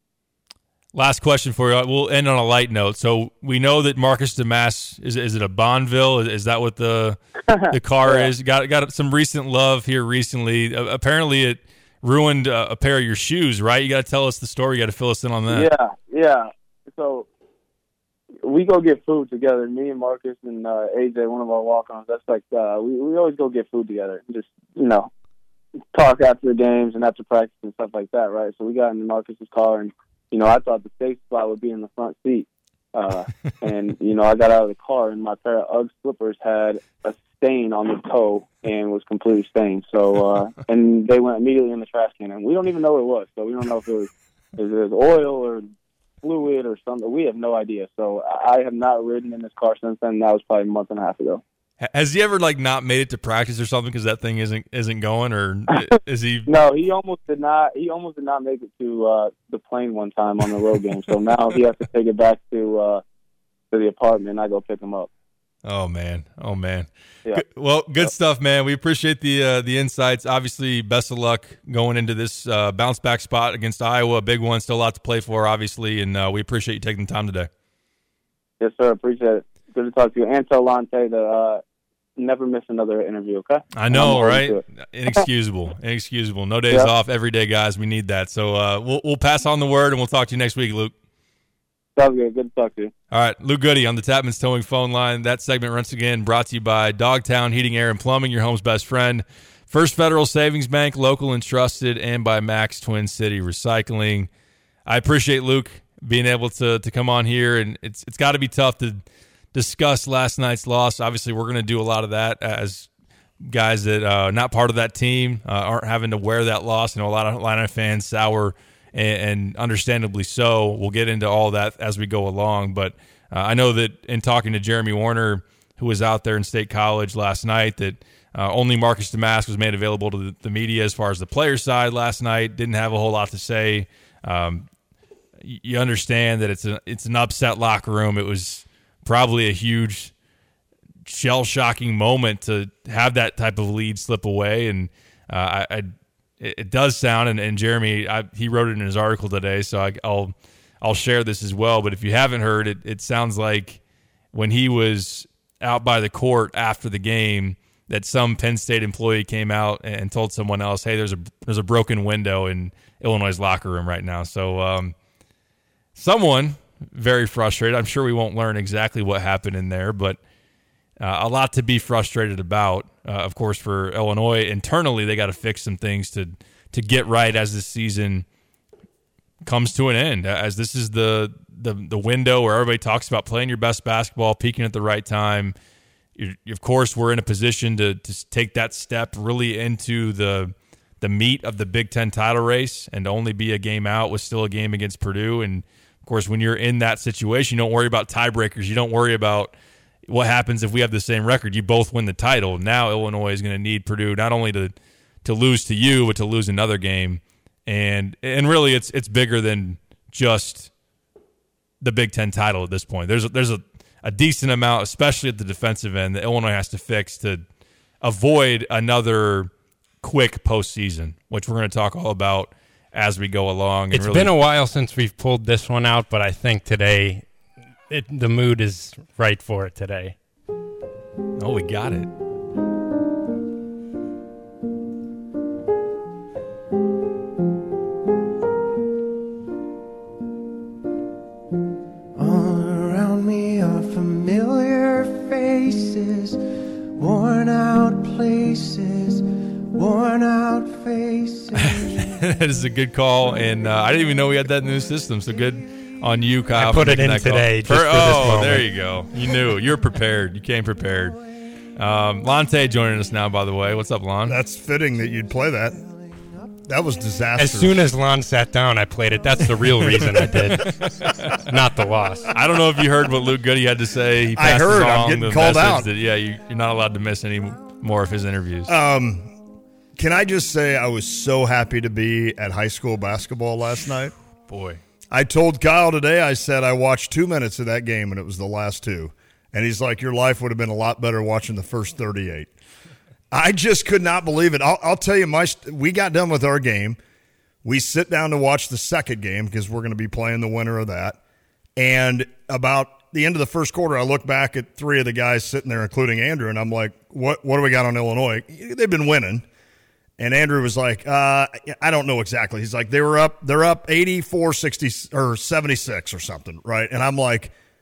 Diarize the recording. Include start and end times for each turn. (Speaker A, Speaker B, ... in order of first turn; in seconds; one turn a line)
Speaker A: 0.9-7.2
Speaker B: 7.5-8.3
Speaker A: 7.7-15.7
Speaker B: 15.5-17.3
Speaker B: 18.4-25.1
Speaker B: 25.9-45.7
Speaker B: 46.2-51.4
Speaker A: 51.8-56.5
Speaker B: 56.5-63.0
Speaker B: 63.7-65.1
Speaker A: 65.6-77.5
Speaker B: 78.6-81.6
Speaker B: 82.2-84.6
Speaker A: 83.7-90.9
Speaker B: 92.0-92.9
Speaker A: 93.1-104.3
Speaker A: 104.8-109.0
Speaker A: 109.5-112.9
Speaker A: 113.4-134.7
Speaker A: 135.4-140.1
Speaker A: 141.1-153.8
Speaker A: 154.3-164.9
Speaker A: 165.9-170.2
Speaker A: 171.0-178.2
Speaker A: 179.4-185.5
Speaker A: 186.2-199.5
Speaker A: 200.1-204.7
Speaker A: 205.2-210.7
Speaker A: 211.8-217.4
Speaker A: 218.0-219.5
Speaker A: 220.0-224.3
Speaker C: 223.9-227.3
Speaker C: 227.9-230.2
Speaker A: 231.4-232.1
Speaker D: 242.1-246.4
Speaker D: 246.9-252.2
Speaker A: 251.6-261.2
Speaker C: 256.5-258.7
Speaker D: 259.2-259.6
Speaker A: 261.8-264.4
Speaker E: 264.3-265.8
Speaker D: 265.0-266.6
Speaker E: 266.7-267.7
Speaker C: 267.4-270.9
Speaker D: 269.2-272.3
Speaker A: 269.9-271.4
Speaker C: 271.5-272.3
Speaker A: 272.3-278.7
Speaker E: 274.3-275.9
Speaker E: 278.7-279.3
Speaker E: 280.0-284.1
Speaker A: 284.5-284.8
Speaker E: 285.1-292.5
Speaker E: 293.3-297.0
Speaker E: 297.6-301.2
Speaker E: 301.8-309.4
Speaker E: 310.2-317.5